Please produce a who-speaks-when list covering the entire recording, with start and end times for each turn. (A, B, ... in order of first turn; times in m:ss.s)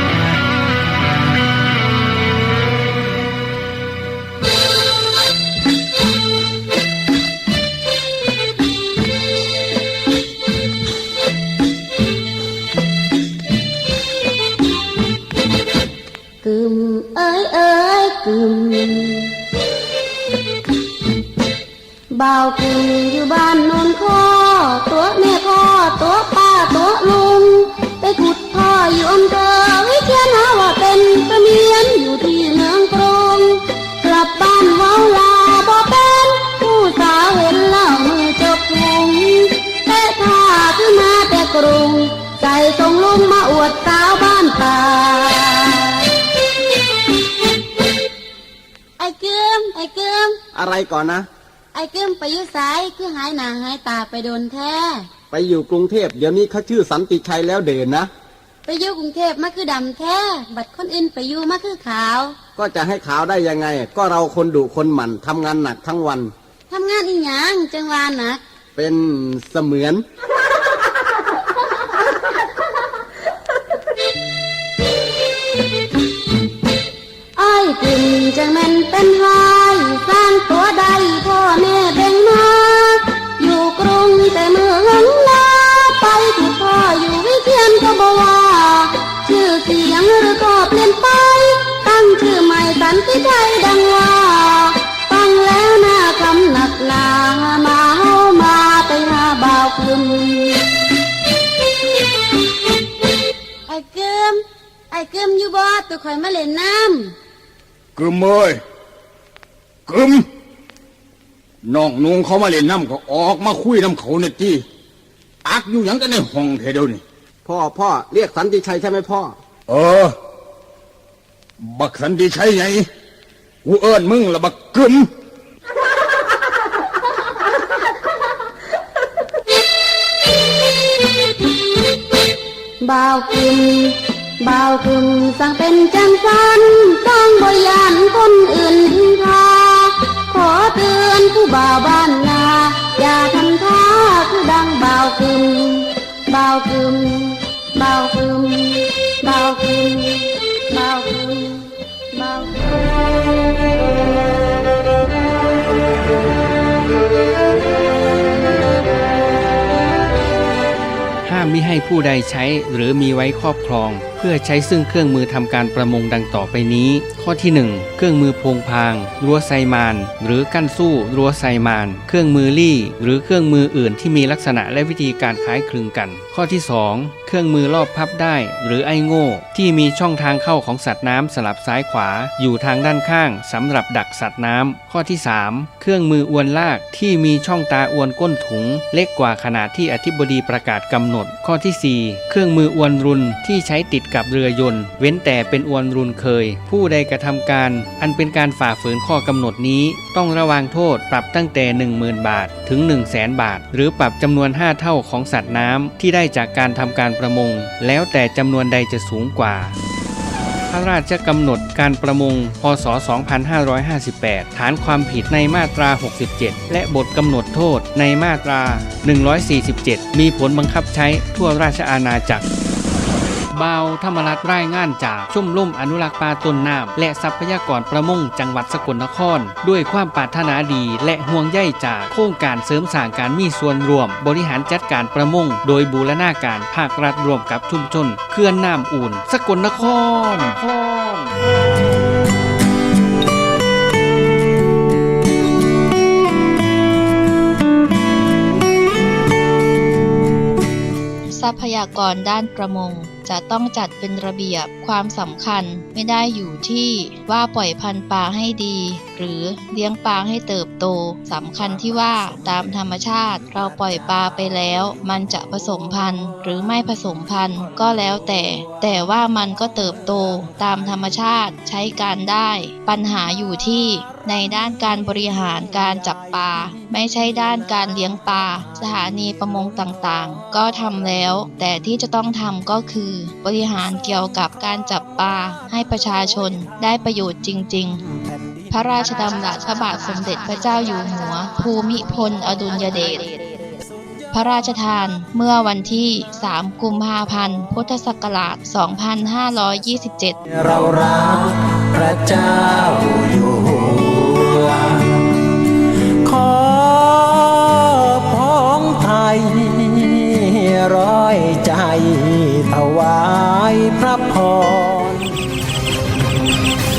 0:16.4-0:19.3 A
0:22.1-0:46.0 A
0:49.0-0:50.4 A
0:50.5-0:51.3 B
0:51.7-0:55.1 A
0:55.3-0:58.1 B
0:58.6-1:02.4 A
1:02.5-1:06.3 B
1:06.7-1:08.4 A
1:08.8-1:10.0 B
1:17.4-1:40.7 A
1:43.7-1:47.1 A
1:48.0-1:48.6 C
1:49.9-1:50.3 C
1:51.6-1:54.6 C
1:55.4-1:57.0 C
1:57.4-1:59.4 B
1:59.7-2:00.2 C
2:01.6-2:02.9 C
2:03.6-2:05.1 C
2:12.8-2:32.7 A
2:41.2-3:29.8 D
3:30.7-3:42.4 D
3:43.5-4:01.3 D
4:11.3-4:48.0 E
4:48.7-4:53.3 E
4:54.3-5:00.4 E
5:00.5-5:05.2 F
5:06.2-5:15.3 F